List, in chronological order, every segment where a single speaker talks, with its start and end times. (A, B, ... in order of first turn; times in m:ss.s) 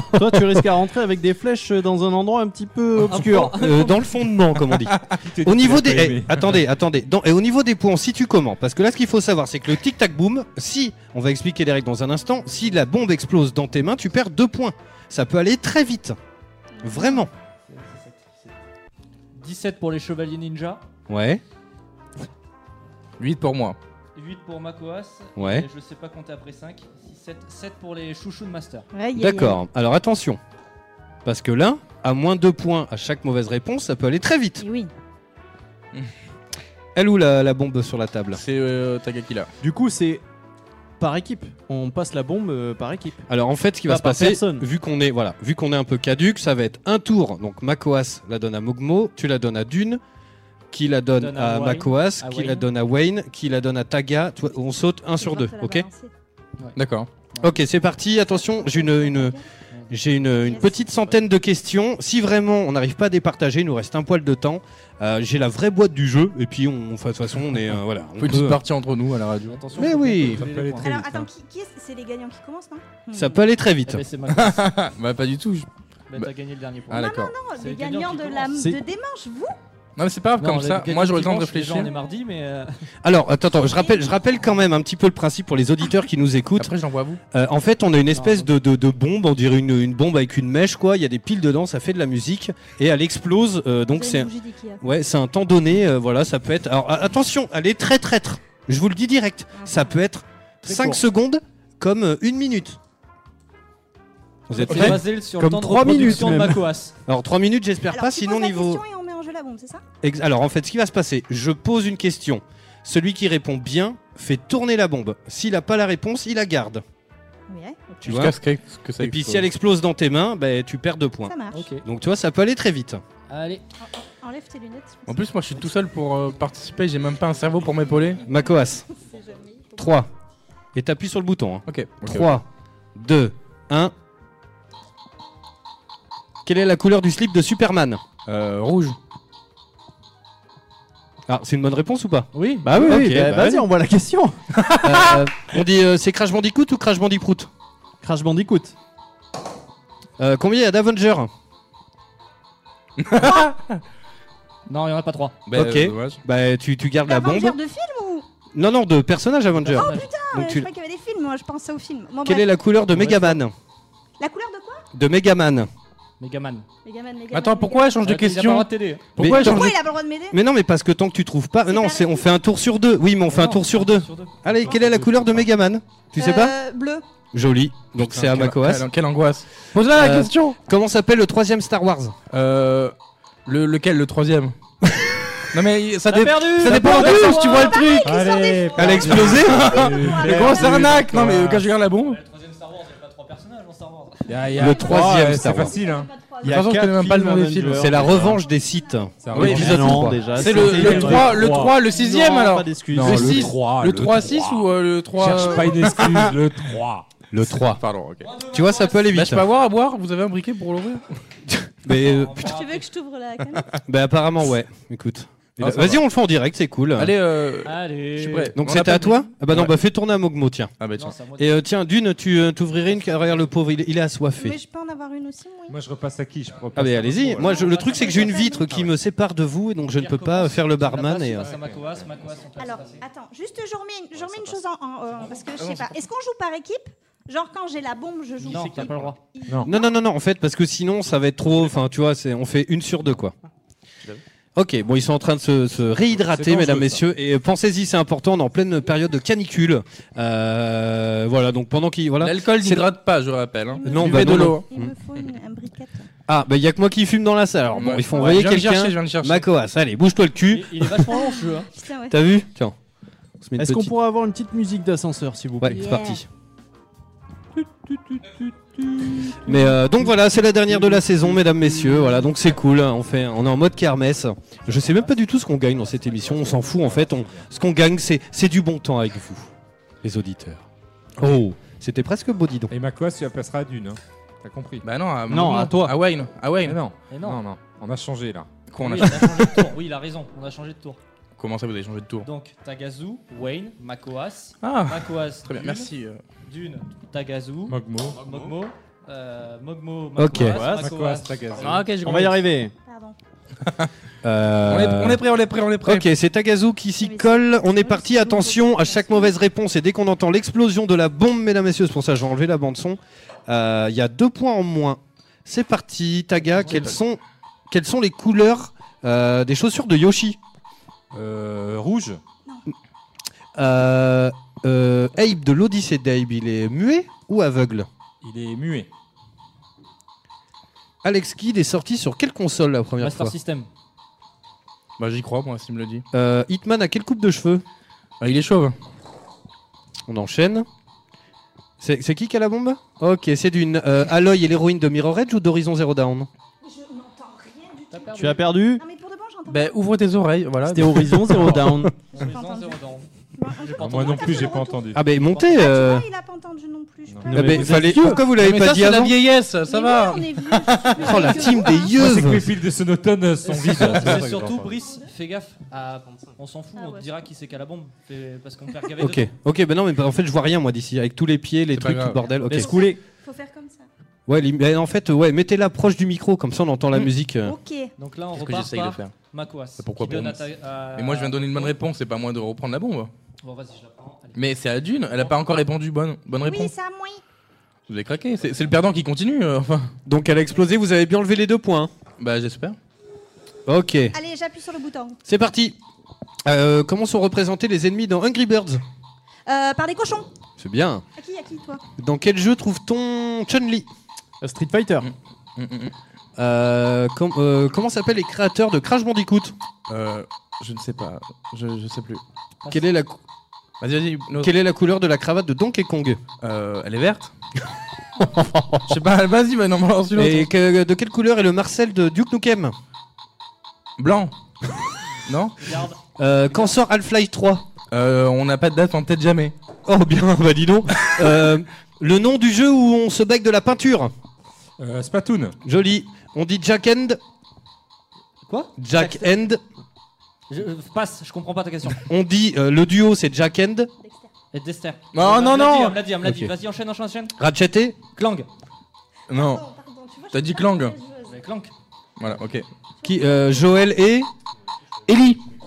0:00.1-0:03.6 A
0:03.0-0:04.0 B
0:03.6-0:16.2 C
0:05.2-0:06.6 D
0:16.8-0:17.2 E
0:16.8-0:17.3 C
0:17.7-0:18.5 B
0:19.3-0:20.8 B
0:21.1-0:21.4 C
0:23.2-0:23.8 F
0:24.2-0:28.9 B
0:25.4-0:25.6 C
0:28.9-0:29.6 E
0:29.1-0:30.4 C
0:31.2-0:34.6 C
0:34.6-0:34.9 E
0:36.9-0:38.4 C
0:38.3-0:39.5 F
0:39.6-0:40.2 A
0:41.0-0:43.2 A
0:43.3-0:50.0 C
0:43.8-0:44.6 A
0:50.7-0:55.8 C
0:51.2-0:52.7 B
0:55.2-0:56.1 E
0:56.8-0:57.1 F
0:57.4-0:59.4 C
0:58.3-0:59.4 E
0:59.7-1:00.0 B
0:59.9-1:08.6 C
1:00.4-1:00.8 E
1:08.2-1:09.6 F
1:09.5-1:11.0 B
1:09.8-1:11.3 D
1:09.8-1:10.3 C
1:10.8-1:13.4 E
1:13.1-1:14.0 C
1:13.9-1:14.6 B
1:14.3-1:16.3 F
1:16.1-1:18.6 B
1:16.9-1:17.3 F
1:16.9-1:19.6 E
1:20.0-1:21.9 F
1:20.4-1:22.7 B
1:21.8-1:22.2 E
1:23.0-1:26.7 C
1:23.8-1:24.4 E
1:26.6-1:27.2 F
1:27.3-1:42.8 C
1:28.1-1:28.5 B
1:33.9-1:34.8 E
1:39.6-1:39.9 E
1:40.6-1:41.0 A
1:44.5-1:46.9 B
1:44.5-1:45.0 C
1:44.7-1:46.6 A
1:44.7-1:45.0 F
1:45.9-1:46.4 C
1:47.1-1:48.8 C
1:47.9-1:49.8 E
1:50.0-1:56.8 C
1:57.5-1:58.2 E
1:58.0-1:58.3 C
1:58.0-1:59.5 F
1:59.0-2:03.0 C
2:01.3-2:01.7 E
2:01.5-2:01.8 B
2:03.3-2:03.6 B
2:04.0-2:05.1 E
2:05.1-2:08.2 F
2:08.2-2:08.8 C
2:08.3-2:09.9 E
2:09.8-2:10.1 C
2:10.7-2:13.9 C
2:11.6-2:12.4 F
2:16.4-2:18.0 C
2:18.3-2:19.0 F
2:21.3-2:23.6 C
2:22.4-2:22.6 B
2:22.4-2:24.4 A
2:24.6-2:25.2 F
2:24.8-2:27.5 C
2:28.0-2:28.7 A
2:30.2-2:31.3 C
2:33.0-2:33.8 F
2:33.2-2:33.4 E
2:34.7-2:35.4 B
2:35.5-2:36.2 F
2:35.5-2:37.6 C
2:37.0-2:38.2 E
2:38.5-2:40.7 C
2:39.6-2:40.1 B
2:39.7-2:42.5 E
2:42.2-2:43.5 C
2:43.0-2:43.3 F
2:44.2-2:44.8 E
2:44.9-2:45.7 C
2:46.2-2:46.6 B
2:46.8-2:48.0 E
2:47.3-2:49.7 F
2:48.0-2:49.1 B
2:49.2-2:49.8 C
2:49.3-2:50.4 E
2:50.3-2:56.5 C
2:51.7-2:52.3 E
2:53.3-2:54.7 B
2:54.6-2:55.1 A
2:56.2-2:57.0 E
2:57.3-2:58.8 C
2:58.0-3:00.6 F
2:59.9-3:02.1 C
3:02.3-3:02.9 F
3:03.4-3:04.5 F
3:05.5-3:08.2 F
3:06.1-3:07.9 B
3:06.9-3:10.7 E
3:08.0-3:11.6 D
3:08.8-3:09.7 C
3:09.1-3:12.2 F
3:12.0-3:14.5 B
3:14.3-3:16.1 D
3:14.6-3:15.8 C
3:14.6-3:16.6 E
3:16.4-3:18.3 F
3:16.4-3:18.3 A
3:17.7-3:20.3 C
3:18.4-3:19.0 E
3:19.2-3:21.7 D
3:19.3-3:19.8 F
3:19.3-3:23.6 A
3:20.3-3:26.4 F
3:22.9-3:27.1 D
3:25.3-3:25.9 E
3:27.3-3:27.8 C
3:27.7-3:28.3 F
3:28.2-3:29.1 B
3:28.5-3:29.4 C
3:29.1-3:31.0 F
3:31.5-3:32.5 C
3:31.9-3:32.9 B
3:32.3-3:33.8 E
3:33.9-3:37.1 C
3:35.6-3:36.0 F
3:36.9-3:39.7 F
3:37.6-3:38.5 B
3:38.6-3:40.7 C
3:40.8-3:41.2 F
3:41.0-3:41.6 B
3:41.3-3:44.6 C
3:42.9-3:43.5 B
3:44.4-3:45.8 E
3:45.7-3:47.8 D
3:46.7-3:51.5 C
3:47.4-3:48.7 E
3:47.5-3:48.3 B
3:48.4-3:48.9 D
3:50.0-3:53.0 B
3:51.5-3:52.1 D
3:52.6-4:00.0 E
3:55.5-3:56.0 F
3:58.4-3:59.2 B
3:58.4-3:59.1 F
3:59.6-4:03.3 C
4:04.6-4:12.8 C
4:06.2-4:07.0 D
4:12.2-4:14.7 F
4:13.7-4:16.1 E
4:13.8-4:14.9 C
4:16.3-4:21.1 C
4:17.8-4:19.5 F
4:20.5-4:21.7 B
4:21.1-4:22.2 E
4:22.1-4:22.7 C
4:23.4-4:23.9 C
4:23.6-4:25.8 A
4:25.6-4:26.2 C
4:25.7-4:26.2 E
4:27.6-4:39.5 C
4:29.5-4:30.1 A
4:30.7-4:32.2 A
4:34.7-4:35.1 B
4:35.8-4:36.7 B
4:36.2-4:37.5 D
4:40.0-4:40.6 C
4:41.2-4:42.7 C
4:42.7-4:44.8 D
4:44.8-4:46.8 F
4:45.3-4:46.0 A
4:46.6-4:48.5 D
4:47.1-4:47.4 B
4:48.7-4:49.7 F
4:48.8-4:51.0 B
4:51.4-4:52.3 F
4:52.2-4:55.9 B
4:54.6-4:56.2 F
4:56.4-5:01.7 B
4:57.7-4:58.2 D
5:00.2-5:00.6 C
5:00.3-5:00.9 A
5:00.7-5:01.9 D
5:01.6-5:02.4 F
5:02.0-5:02.7 A
5:02.8-5:03.2 E
5:04.2-5:05.2 C
5:04.7-5:06.1 F
5:05.8-5:20.4 C
5:07.0-5:09.4 E
5:21.1-5:22.2 D
5:23.6-5:27.9 C
5:28.2-5:28.9 D
5:31.0-5:33.3 C
5:33.0-5:33.7 B
5:35.0-5:36.0 F
5:36.1-5:37.6 C
5:38.2-5:38.7 F
5:40.1-5:40.6 C
5:41.8-5:46.3 C
5:46.6-5:49.8 E
5:47.9-5:48.4 B
5:48.2-5:48.8 A
5:49.5-5:51.5 F
5:50.6-5:51.9 A
5:52.1-5:54.7 B
5:52.1-5:52.8 E
5:53.4-5:57.5 E
5:53.8-5:55.0 D
5:54.9-5:56.0 C
5:57.3-5:58.2 A
5:57.3-5:59.2 C
5:58.0-6:01.4 F
5:59.6-6:02.0 E
6:01.0-6:02.5 C
6:01.9-6:04.7 D
6:03.4-6:09.3 B
6:03.9-6:04.2 F
6:04.8-6:05.1 E
6:06.8-6:07.1 E
6:09.0-6:12.8 C
6:11.7-6:12.2 F
6:12.5-6:13.0 A
6:12.5-6:13.9 E
6:14.3-6:17.5 C
6:17.4-6:17.9 E
6:18.0-6:21.8 B
6:18.3-6:19.1 F
6:19.8-6:23.1 F
6:23.4-6:24.4 B
6:24.3-6:26.7 F
6:26.4-6:27.2 E
6:27.9-6:29.9 F
6:30.0-6:31.9 C
6:32.2-6:32.8 F
6:33.7-6:34.1 C
6:34.1-6:35.2 E
6:35.2-6:35.7 C
6:36.4-6:38.8 C
6:39.4-6:40.3 E
6:40.6-6:41.0 C
6:41.2-6:41.8 E
6:42.0-6:43.9 C
6:44.4-6:45.1 A
6:45.1-6:45.9 F
6:46.4-6:49.5 C
6:49.9-6:52.2 F
6:52.7-6:53.2 C
6:53.8-6:54.5 F
6:54.4-6:56.2 C
6:56.4-6:57.3 F
6:58.4-6:58.8 C
6:58.9-7:00.5 F
7:00.2-7:02.7 C
7:04.0-7:04.3 F
7:05.3-7:05.6 F
7:05.6-7:06.0 B
7:06.2-7:07.6 C
7:07.9-7:09.5 F
7:09.8-7:14.1 C
7:14.8-7:15.6 D
7:15.6-7:17.2 C
7:18.5-7:19.4 B
7:18.8-7:19.6 C
7:20.5-7:22.0 B
7:22.0-7:23.9 C
7:24.0-7:24.3 E
7:24.5-7:27.3 B
7:25.1-7:26.0 F
7:26.2-7:26.5 C
7:27.4-7:28.0 C
7:28.1-7:28.5 B
7:29.3-7:29.6 F
7:29.3-7:31.4 E
7:30.3-7:31.0 F
7:31.2-7:31.7 B
7:32.2-7:32.6 F
7:33.0-7:33.6 E
7:33.0-7:34.3 C
7:35.1-7:35.4 F